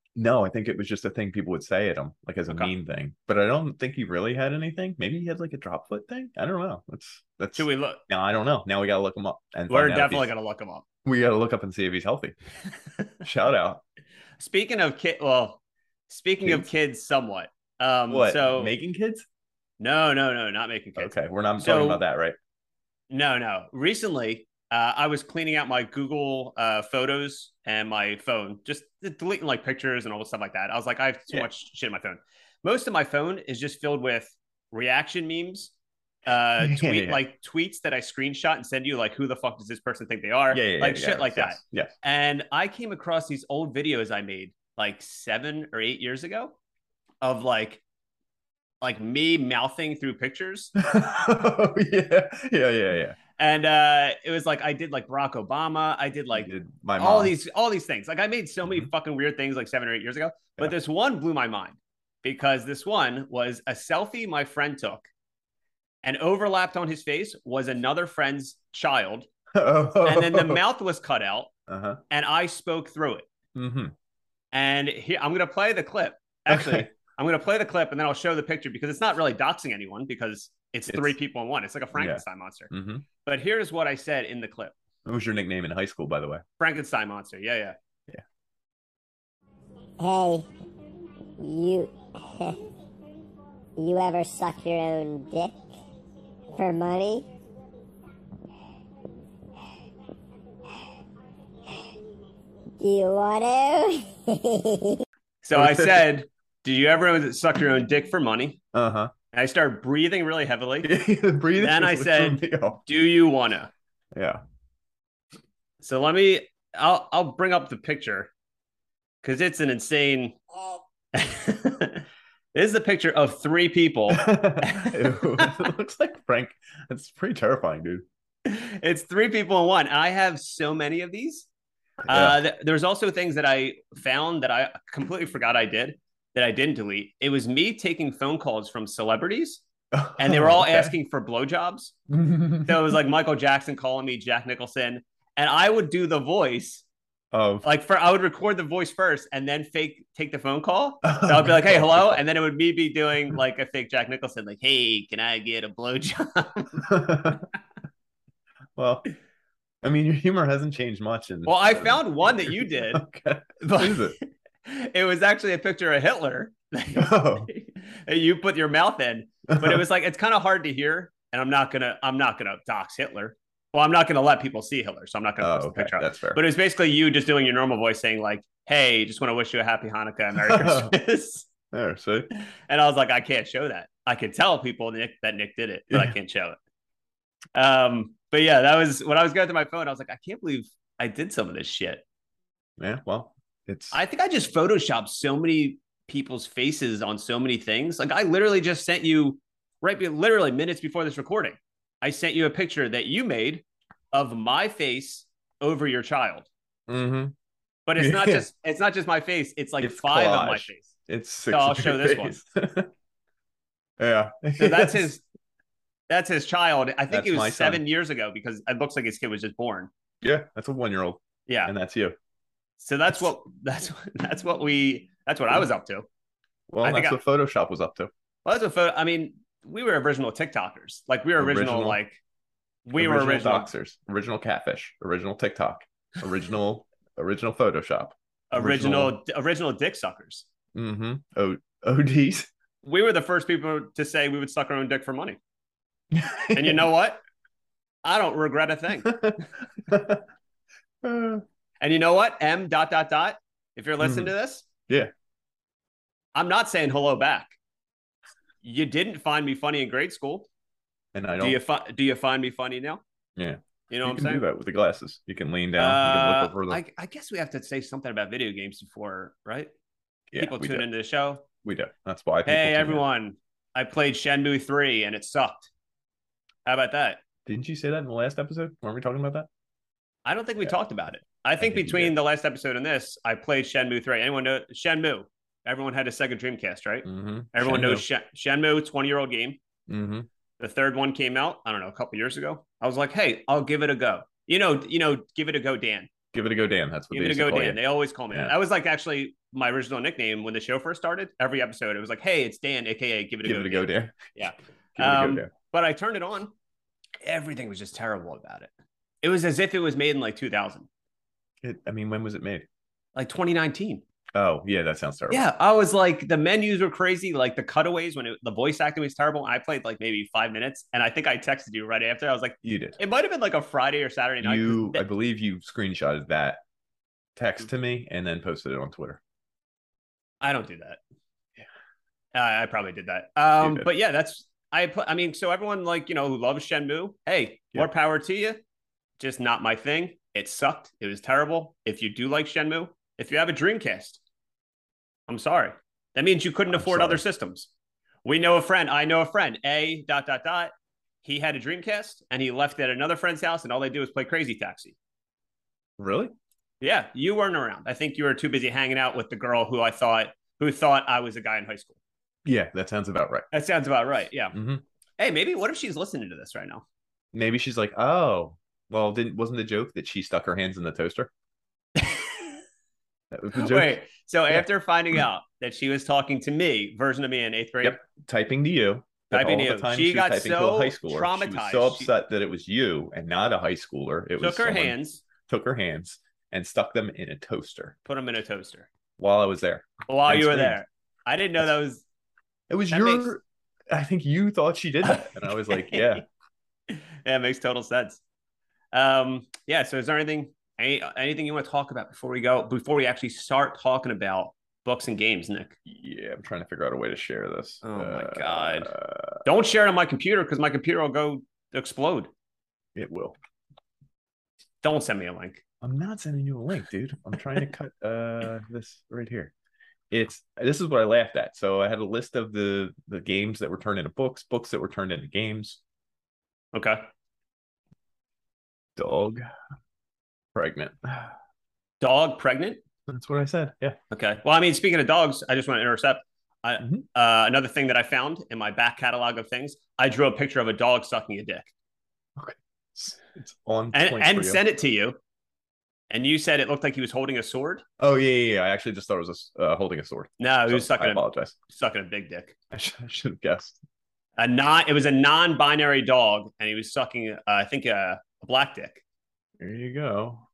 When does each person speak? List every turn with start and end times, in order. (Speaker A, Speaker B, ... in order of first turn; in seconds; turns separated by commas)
Speaker A: 0.1-10.3, Speaker B: 2.5-2.7, Speaker B: 7.5-8.0, Speaker B: 9.7-10.8, Speaker A: 11.0-12.3, Speaker A: 13.2-13.8, Speaker B: 14.4-18.7, Speaker A: 16.4-16.7, Speaker A: 18.1-19.2, Speaker B: 19.8-22.0, Speaker A: 21.0-22.4, Speaker B: 23.1-35.7, Speaker B: 36.2-46.5, Speaker A: 36.6-37.2, Speaker A: 40.5-41.9, Speaker B: 47.2-47.8, Speaker B: 48.8-50.7, Speaker A: 50.8-53.2, Speaker B: 53.4-65.1, Speaker A: 56.3-57.3, Speaker B: 66.0-69.3, Speaker A: 69.5-70.6, Speaker B: 70.0-71.5, Speaker A: 71.7-72.0, Speaker B: 72.1-73.2, Speaker A: 73.5-73.9, Speaker B: 74.5-82.7, Speaker A: 76.5-76.9, Speaker A: 80.9-81.2, Speaker A: 81.9-83.0, Speaker B: 83.2-84.7, Speaker A: 85.0-86.4, Speaker B: 86.6-87.8, Speaker C: 90.0-90.5, Speaker C: 91.4-92.6, Speaker C: 93.8-95.5, Speaker C: 96.5-97.3, Speaker C: 102.8-105.0, Speaker B: 105.4-108.6, Speaker A: 105.5-106.1, Speaker A: 108.7-109.1, Speaker B: 109.3-110.9, Speaker A: 110.8-112.8, Speaker B: 111.5-113.7, Speaker A: 114.1-114.4, Speaker B: 115.8-118.3, Speaker B: 119.2-120.4, Speaker B: 121.1-125.6, Speaker A: 124.1-128.1, Speaker B: 128.4-131.5, Speaker A: 132.1-132.4, Speaker B: 132.1-139.6, Speaker A: 139.9-141.0, Speaker B: 140.2-141.9, Speaker A: 142.1-143.0, Speaker B: 142.6-146.8, Speaker A: 147.3-147.6, Speaker B: 147.6-156.8, Speaker A: 151.0-152.2, Speaker A: 156.8-157.4, Speaker A: 158.8-159.1, Speaker A: 159.8-164.2, Speaker B: 161.4-163.1, Speaker B: 163.6-181.5, Speaker A: 166.9-167.5, Speaker A: 169.5-169.8, Speaker A: 175.4-176.4, Speaker A: 180.3-180.9, Speaker A: 181.7-182.3, Speaker B: 182.4-186.6, Speaker B: 187.5-192.0, Speaker A: 192.8-194.0, Speaker B: 193.9-206.5, Speaker A: 206.9-207.3, Speaker B: 207.8-210.9, Speaker A: 208.0-208.4, Speaker A: 209.8-212.9, Speaker B: 211.5-212.4, Speaker A: 214.0-215.1, Speaker B: 214.6-215.2, Speaker B: 216.1-219.9, Speaker A: 217.1-217.8, Speaker A: 220.2-222.2, Speaker B: 221.5-221.7, Speaker B: 222.8-226.1, Speaker A: 226.7-228.1, Speaker B: 226.8-227.2, Speaker B: 228.4-232.2, Speaker A: 231.4-232.0, Speaker B: 232.8-233.7, Speaker A: 232.9-239.2, Speaker B: 238.5-240.4, Speaker A: 240.7-242.5, Speaker B: 242.8-245.4, Speaker A: 246.1-246.9, Speaker B: 246.5-247.2, Speaker B: 248.0-249.4, Speaker A: 249.0-250.2, Speaker A: 251.0-251.4, Speaker B: 251.8-254.7, Speaker A: 254.0-254.3, Speaker B: 256.3-257.5, Speaker B: 258.6-260.5, Speaker A: 261.1-261.6, Speaker B: 261.4-263.0, Speaker A: 263.4-266.8, Speaker B: 263.9-264.4, Speaker B: 265.8-269.7, Speaker A: 270.3-270.9, Speaker B: 270.4-271.4, Speaker A: 271.6-273.0, Speaker B: 272.4-275.7, Speaker B: 276.6-277.2, Speaker A: 277.4-279.5, Speaker B: 280.2-289.6, Speaker A: 281.6-282.2, Speaker A: 287.0-288.0, Speaker A: 289.9-290.3, Speaker B: 290.6-296.1, Speaker A: 296.3-298.5, Speaker B: 297.1-306.5, Speaker A: 303.4-304.4, Speaker A: 304.9-305.5, Speaker B: 307.2-308.7, Speaker B: 309.2-310.9, Speaker A: 311.6-312.6, Speaker B: 313.1-314.0, Speaker A: 314.3-315.4, Speaker B: 315.3-325.0, Speaker A: 322.6-323.0, Speaker A: 324.4-326.6, Speaker A: 327.4-329.2, Speaker B: 330.4-331.0, Speaker B: 332.3-338.6, Speaker A: 333.6-333.9, Speaker B: 339.2-344.2, Speaker B: 345.3-347.7, Speaker A: 346.7-347.2, Speaker B: 348.2-350.7, Speaker B: 351.2-354.9, Speaker A: 356.0-356.3, Speaker B: 356.8-362.0, Speaker A: 362.4-363.5, Speaker B: 363.5-364.5, Speaker A: 364.5-364.8, Speaker B: 365.2-366.8, Speaker A: 367.3-371.3, Speaker B: 372.0-372.5, Speaker A: 373.3-375.2, Speaker B: 373.5-378.0, Speaker A: 377.8-387.9, Speaker B: 379.3-382.1, Speaker B: 384.4-385.2, Speaker B: 388.1-388.9, Speaker A: 389.2-390.8, Speaker B: 390.1-392.0, Speaker A: 392.7-396.2, Speaker B: 392.9-393.3, Speaker B: 395.1-396.2, Speaker B: 396.9-398.2, Speaker B: 398.9-405.8, Speaker A: 405.9-409.4, Speaker B: 407.8-408.9, Speaker B: 409.4-412.3, Speaker A: 412.9-413.4, Speaker B: 414.8-415.6, Speaker A: 415.8-419.5, Speaker A: 420.1-425.8, Speaker B: 426.7-427.0, Speaker A: 428.9-429.5, Speaker A: 430.5-431.3, Speaker B: 432.0-432.8, Speaker A: 433.1-434.0, Speaker B: 434.1-441.7, Speaker A: 436.8-437.0, Speaker A: 442.4-444.6, Speaker B: 443.9-445.2, Speaker B: 446.1-447.8, Speaker A: 448.0-451.6, Speaker B: 450.4-452.5, Speaker A: 452.7-453.8, Speaker B: 454.4-459.0, Speaker A: 459.6-460.4